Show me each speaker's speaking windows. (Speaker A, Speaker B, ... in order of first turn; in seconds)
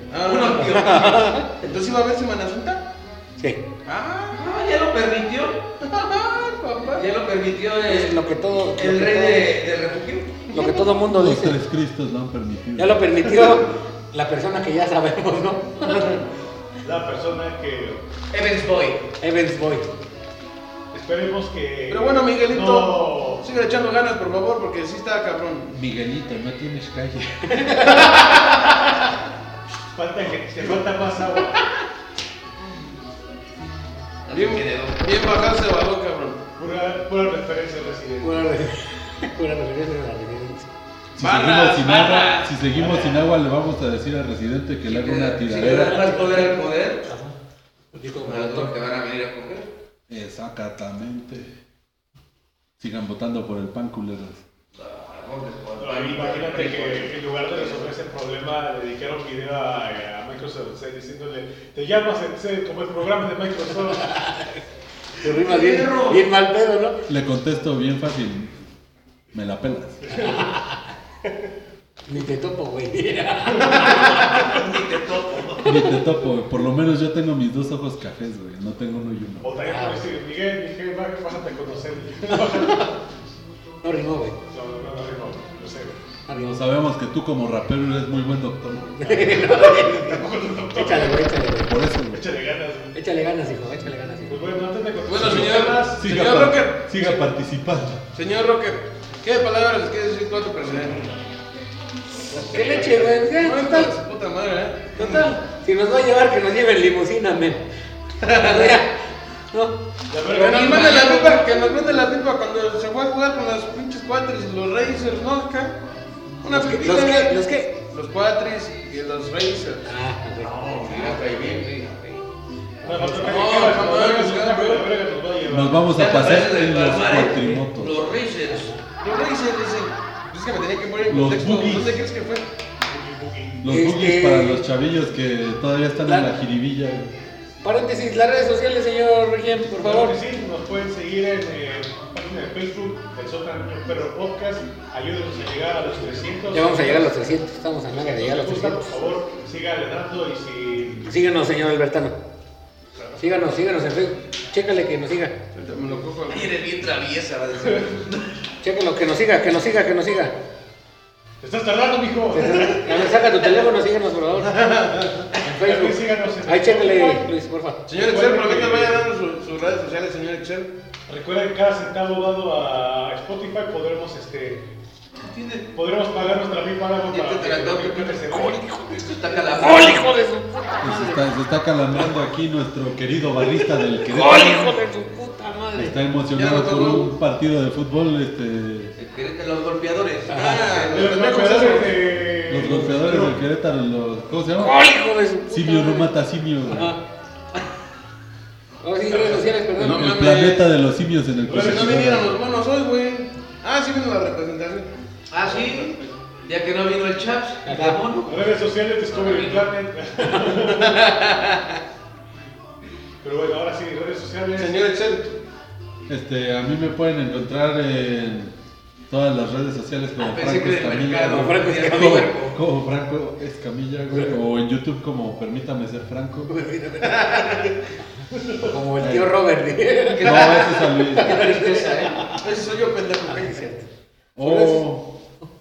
Speaker A: 0.1-2.9, 3.9-4.5, 5.8-7.0, 10.5-10.8, 21.9-25.7, 27.8-28.7, 34.3-36.4, 41.2-41.5, 95.0-97.1, 98.1-101.1, 102.7-105.3, 108.2-108.8, 110.3-115.8, 116.4-117.3, 117.9-119.9, 123.2-124.9, 129.0-132.4, 155.5-156.6, 164.5-165.3, 167.9-170.7, 186.3-187.1, 190.3-192.0, 199.2-200.7, 201.5-204.9, 210.7-211.8, 214.6-215.4, 227.2-227.6, 232.3-233.7, 234.4-234.8
Speaker B: 0.2-1.3, 4.3-5.6, 7.0-10.4, 18.3-19.1, 34.3-35.5, 41.2-42.5, 44.9-47.1, 48.2-49.7, 54.8-57.9, 65.2-66.3, 73.9-75.8, 120.5-122.2, 125.9-128.7, 156.3-158.3, 175.2-175.7, 177.1-180.1, 189.0-191.2, 205.3-208.4, 209.1-209.7, 220.2-222.6, 230.1-232.2
Speaker C: 0.7-1.5, 7.9-9.5, 10.5-11.6, 12.8-16.2, 19.2-19.9, 27.5-28.1, 38.2-40.7, 45.6-46.6, 47.1-47.4, 48.0-48.7, 64.1-64.5, 65.2-67.0, 70.1-70.8, 72.1-74.1, 79.6-80.1, 82.3-82.9, 83.8-84.4, 86.3-86.6, 89.0-91.8, 92.9-94.5, 102.3-103.9, 105.0-107.6, 108.2-109.0, 109.5-111.8, 116.5-117.8, 119.8-121.3, 122.8-123.6, 128.5-128.8, 133.7-134.7, 136.1-136.3, 137.6-140.2, 146.5-149.0, 151.1-152.2, 153.2-155.3, 158.6-160.3, 162.3-164.6, 165.4-167.8, 178.3-181.2, 184.1-186.0, 190.3-190.8, 194.6-196.1, 196.7-197.0, 198.8-200.2, 207.7-208.0, 221.3-222.3, 226.5-227.6, 228.2-232.4, 233.3-233.9
Speaker D: 11.1-13.2, 25.7-27.7, 41.2-46.1, 50.1-51.5, 52.8-54.4, 67.1-68.5, 69.3-70.1, 75.6-79.5, 86.3-89.2, 91.7-92.2, 95.2-98.0, 125.5-128.0, 131.1-132.0, 133.6-137.1, 180.8-184.8, 185.8-188.9, 192.5-194.8, 195.5-196.9, 199.8-202.4, 216.1-218.5, 219.1-226.6, 229.0-229.4, 230.1-231.5, 234.4-235.1
Speaker E: 16.8-18.0, 20.9-23.4, 29.9-31.7, 36.6-38.6, 42.8-43.0, 55.8-64.3, 70.1-70.5, 79.4-82.9, 84.5-86.0, 89.1-91.4, 92.1-93.0, 94.3-96.1, 102.2-103.2, 110.1-111.1, 122.8-126.0, 132.9-133.6, 139.7-147.2, 148.1-151.2, 161.4-163.2, 165.5-167.3, 167.9-169.1, 171.1-174.7, 175.7-178.7, 190.8-193.4, 201.5-202.2, 208.2-211.0, 213.2-214.8, 228.4-228.7